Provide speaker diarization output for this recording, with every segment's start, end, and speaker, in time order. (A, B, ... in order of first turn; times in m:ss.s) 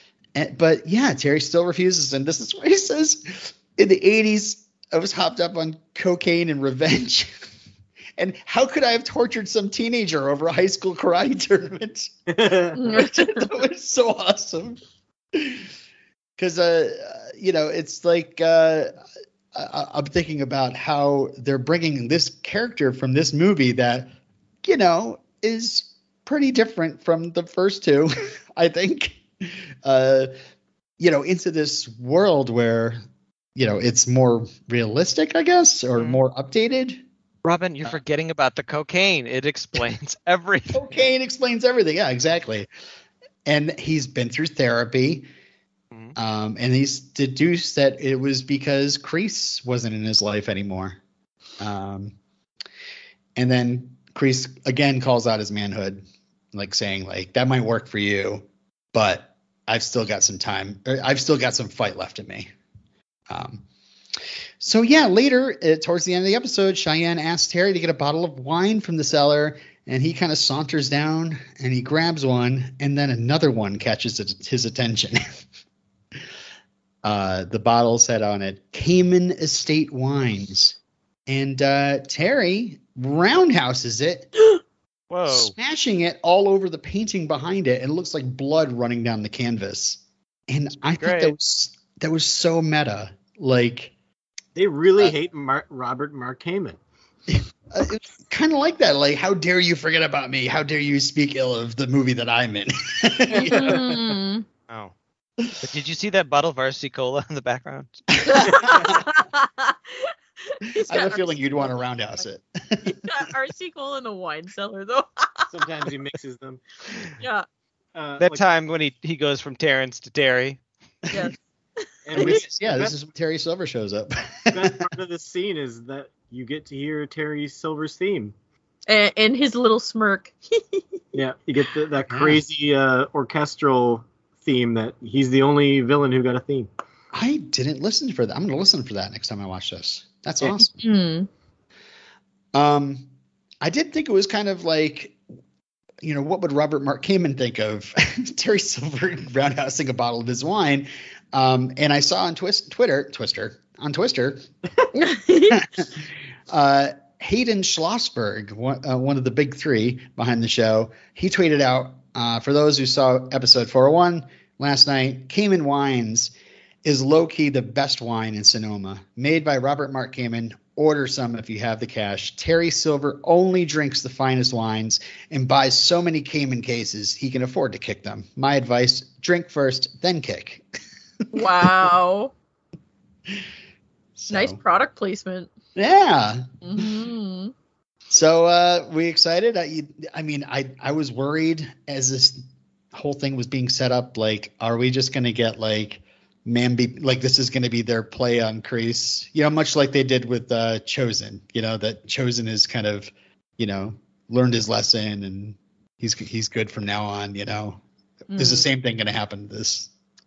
0:00.3-0:07.3 A
0:08.2-0:12.1 A
0:12.3-0:12.8 B
0:12.8-0:13.5 C
0:12.8-0:14.8 A
0:15.3-0:15.7 A
0:16.4-0:18.9 A
0:19.5-0:24.1 A
0:24.6-0:30.3 A
0:31.0-0:33.0 A
0:33.5-0:37.0 A
0:37.4-0:40.8 D
0:40.7-0:42.7 A
0:43.4-0:45.2 A
0:46.2-0:51.0 A
0:51.6-0:52.1 A
0:53.4-1:02.5 A
1:03.3-1:03.6 A
1:04.6-1:15.2 A
1:17.0-1:24.3 A
1:25.1-1:25.5 D
1:25.3-1:33.9 A
1:31.0-1:31.3 D
1:34.5-1:36.8 B
1:37.3-1:44.0 A
1:43.3-1:44.4 C
1:44.7-1:44.9 D
1:45.6-1:48.5 D
1:48.2-1:49.0 A
1:48.2-1:51.7 C
1:50.8-1:53.3 A
1:52.8-1:55.5 C
1:55.5-1:56.6 B
1:57.2-1:57.4 C
1:57.9-1:58.4 B
1:58.2-2:00.6 D
2:01.1-2:02.4 C
2:02.0-2:02.9 B
2:02.1-2:04.9 A
2:04.5-2:08.3 B
2:08.9-2:10.8 C
2:11.1-2:16.7 B
2:12.1-2:12.4 A
2:17.1-2:20.8 A
2:20.7-2:21.3 C
2:22.5-2:23.0 A
2:23.6-2:25.2 A
2:26.0-2:34.4 A
2:34.9-2:35.6 C
2:35.5-2:46.3 A
2:46.8-3:00.6 A
3:01.3-3:02.3 C
3:01.4-3:01.9 A
3:04.2-3:04.6 A
3:04.3-3:05.5 C
3:05.8-3:06.8 A
3:06.6-3:07.5 C
3:08.1-3:27.8 A
3:28.3-3:28.7 C
3:28.3-3:29.9 A